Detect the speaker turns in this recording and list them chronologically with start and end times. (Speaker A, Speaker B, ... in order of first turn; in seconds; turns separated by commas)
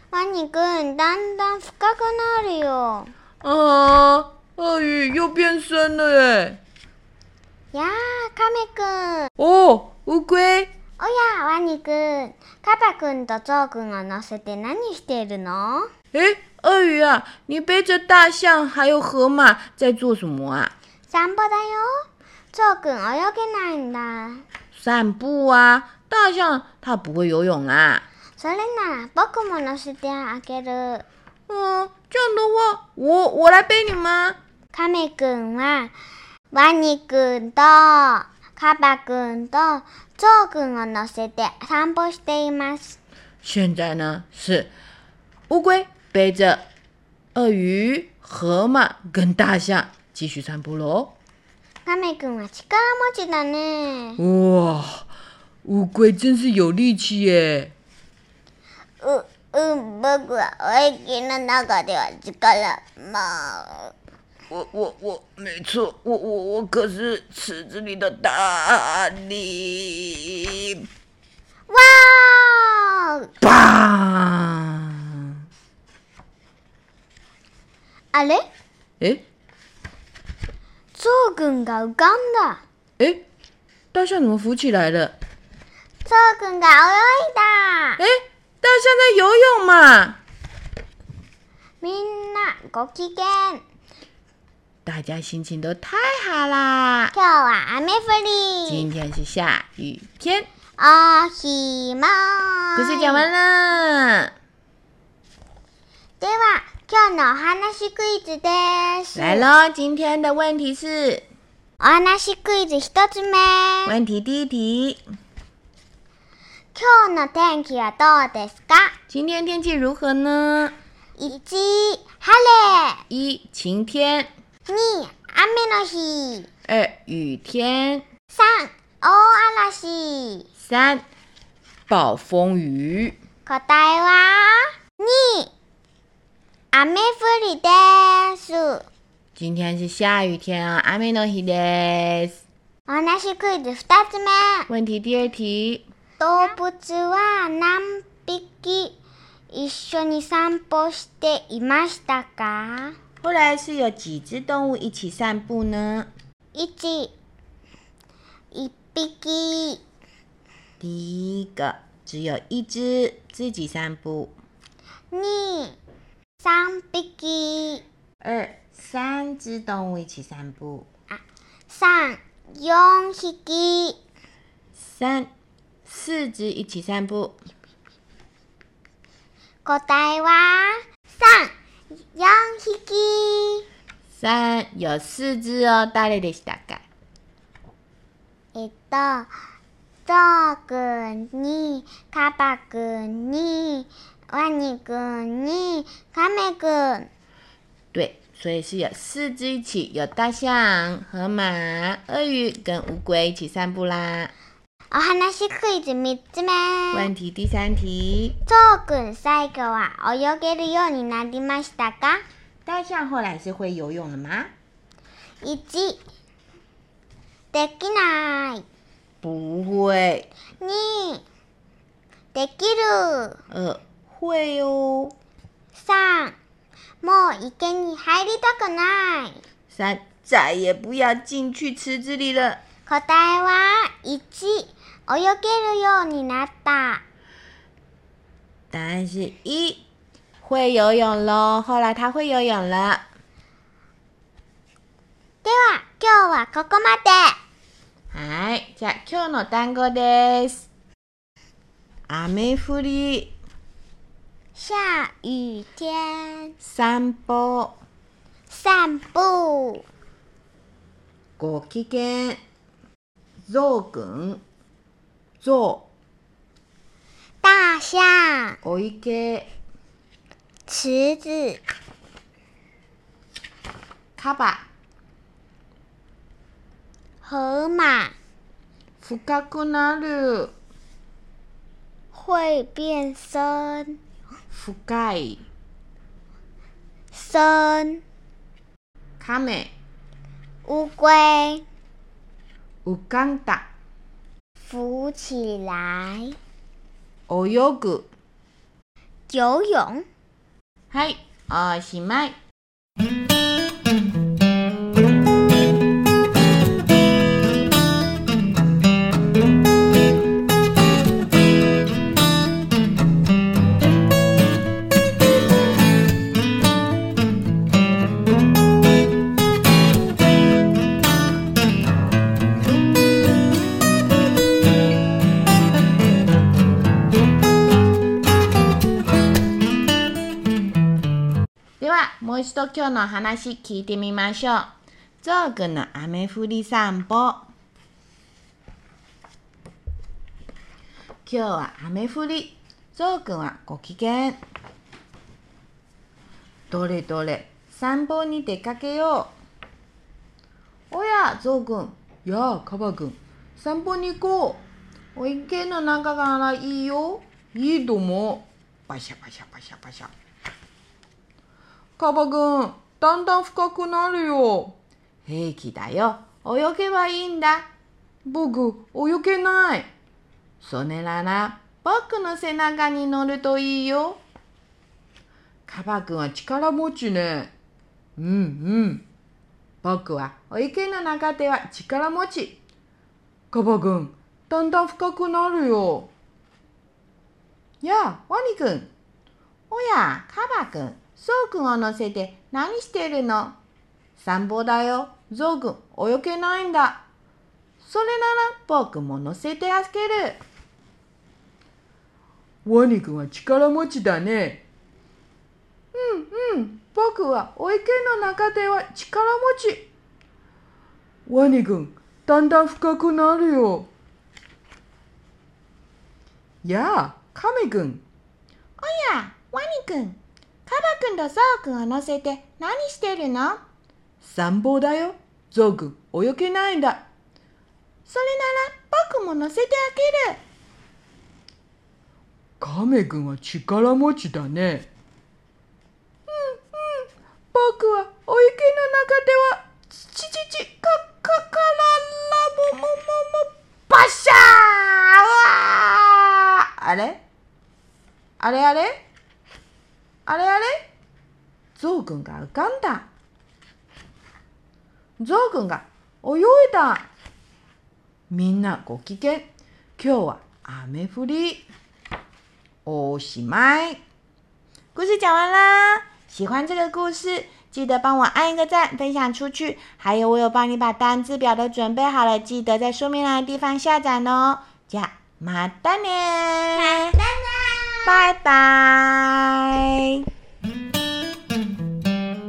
Speaker A: 0.1-3.1, Speaker B: 3.4-6.6, Speaker A: 7.7-9.3, Speaker B: 9.4-10.7, Speaker A: 11.0-15.9, Speaker B: 16.1-20.7, Speaker A: 21.1-24.4, Speaker B: 24.7-28.1, Speaker A: 28.4-31.1, Speaker B: 31.5-34.4, Speaker A: 34.7-35.9, Speaker A: 36.5-43.0, Speaker B: 43.4-44.7, Speaker B: 45.5-46.6, Speaker B: 47.4-51.2, Speaker A: 51.9-54.2, Speaker B: 54.2-55.1, Speaker B: 55.6-57.7, Speaker A: 59.0-63.9, Speaker B: 64.5-70.9, Speaker A: 71.7-73.3, Speaker B: 73.4-75.3, Speaker A: 78.1-78.5, Speaker A: 80.9-82.6, Speaker B: 83.9-85.2, Speaker A: 86.0-88.0, Speaker B: 88.0-90.2, Speaker A: 91.8-93.6, Speaker B: 94.9-97.1, Speaker A: 97.1-98.9, Speaker B: 98.7-100.5, Speaker A: 100.8-103.3, Speaker B: 102.8-104.3, Speaker A: 106.2-109.5, Speaker B: 109.2-111.2, Speaker A: 111.8-114.0, Speaker B: 113.9-115.0, Speaker A: 116.7-119.0, Speaker B: 119.1-120.8, Speaker A: 121.2-123.0, Speaker B: 123.1-124.3, Speaker A: 124.7-126.5, Speaker B: 126.7-128.0, Speaker A: 128.3-130.5, Speaker B: 130.6-131.1, Speaker B: 131.9-133.2, Speaker A: 133.5-135.5, Speaker A: 136.7-138.9, Speaker B: 139.4-142.4, Speaker A: 142.9-144.7, Speaker B: 144.7-145.9, Speaker A: 146.2-149.0, Speaker A: 149.5-153.0, Speaker B: 153.2-156.1, Speaker A: 156.5-157.2, Speaker A: 158.5-159.8, Speaker B: 160.8-164.4, Speaker A: 165.1-165.8, Speaker A: 166.4-167.8, Speaker B: 168.2-170.9, Speaker A: 171.1-174.0, Speaker B: 174.8-175.3, Speaker B: 175.9-177.4, Speaker A: 179.6-181.5, Speaker A: 182.1-183.7, Speaker B: 184.1-186.8, Speaker A: 188.5-189.3, Speaker A: 190.1-197.1, Speaker B: 197.9-204.3, Speaker A: 204.9-207.1, Speaker B: 206.9-208.4, Speaker A: 208.4-212.2, Speaker B: 212.7-214.5, Speaker A: 215.4-216.0, Speaker A: 217.5-218.7, Speaker B: 219.2-220.3, Speaker A: 220.6-221.2, Speaker A: 222.3-223.4, Speaker B: 223.5-225.1, Speaker A: 225.8-226.4, Speaker A: 227.0-229.4, Speaker B: 229.7-232.6, Speaker A: 232.9-237.0, Speaker B: 238.7-239.8, Speaker B: 240.4-243.1, Speaker A: 245.4-247.4, Speaker B: 248.1-250.7, Speaker B: 252.1-253.3, Speaker A: 254.6-256.6, Speaker B: 256.6-257.8, Speaker A: 258.5-259.8, Speaker B: 261.4-262.4, Speaker B: 263.5-264.4, Speaker B: 265.4-265.9, Speaker A: 267.4-268.6, Speaker B: 268.6-269.5, Speaker A: 270.7-271.6, Speaker B: 274.2-274.7, Speaker A: 277.2-278.1, Speaker B: 279.0-280.5, Speaker A: 282.1-284.0, Speaker B: 284.5-285.4, Speaker A: 287.1-288.0, Speaker B: 289.2-289.7, Speaker A: 290.6-291.6, Speaker B: 292.9-293.7, Speaker A: 294.7-296.4, Speaker B: 297.3-298.1, Speaker A: 299.3-300.1, Speaker B: 300.9-302.3, Speaker B: 331.8-334.7, Speaker B: 335.2-337.5, Speaker B: 341.3-344.4, Speaker B: 346.7-349.3, Speaker B: 350.9-360.1, Speaker B: 362.0-367.7, Speaker B: 368.2-369.9, Speaker B: 370.6-374.2, Speaker B: 375.7-377.5, Speaker B: 378.2-379.1, Speaker B: 379.8-382.6, Speaker B: 383.5-386.1, Speaker B: 387.8-388.9, Speaker B: 389.7-393.6, Speaker B: 394.2-397.0, Speaker B: 397.8-400.4, Speaker B: 402.6-404.6, Speaker B: 405.9-409.9, Speaker B: 411.3-413.9, Speaker B: 416.6-418.0, Speaker B: 418.8-423.6, Speaker B: 424.2-427.1, Speaker B: 428.1-430.4, Speaker B: 432.6-434.9, Speaker B: 436.3-447.2, Speaker B: 448.4-449.0, Speaker B: 450.3-450.9, Speaker B: 451.8-453.1, Speaker B: 455.2-457.1, Speaker B: 458.3-459.5, Speaker B: 460.0-461.7, Speaker B: 462.9-464.0, Speaker B: 464.9-477.2, Speaker A: 476.8-478.3, Speaker B: 478.1-480.2